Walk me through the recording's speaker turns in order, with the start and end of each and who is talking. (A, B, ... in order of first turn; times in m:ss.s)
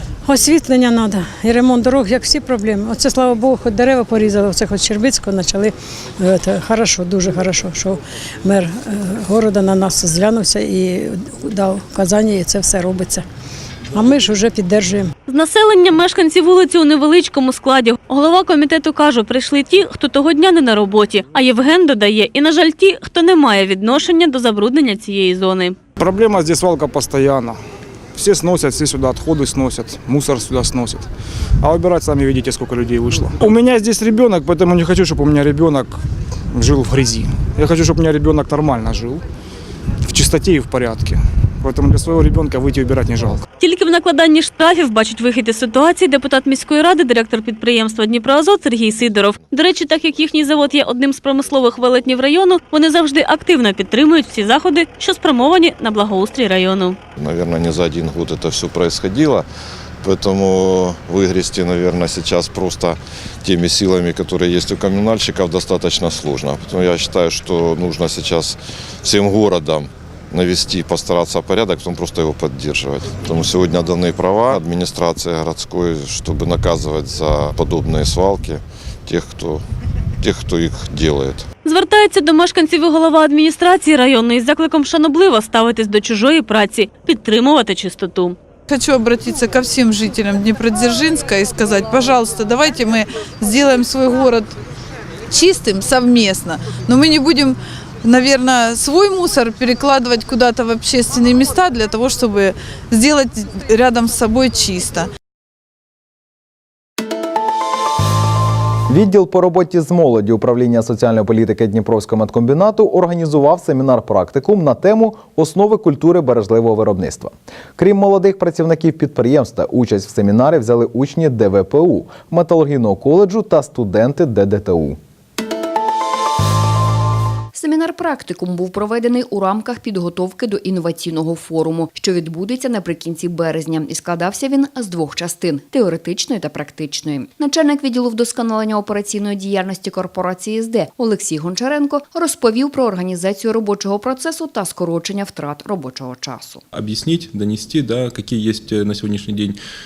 0:00.3-0:13.2 A
0:13.9-0:15.1 A
0:15.3-0:25.8 B
0:26.0-0:27.5 C
0:28.2-0:31.0 C
0:31.6-0:35.9 C
0:36.6-0:39.2 C
0:40.1-0:43.4 C
0:43.6-0:57.0 B
0:57.2-0:59.5 D
1:00.0-1:19.6 D
1:20.2-1:21.4 D
1:21.6-1:28.4 B
1:28.7-1:34.6 E
1:35.3-1:45.1 E
1:48.9-2:05.0 F
2:07.6-2:26.6 G
2:26.7-2:29.6 H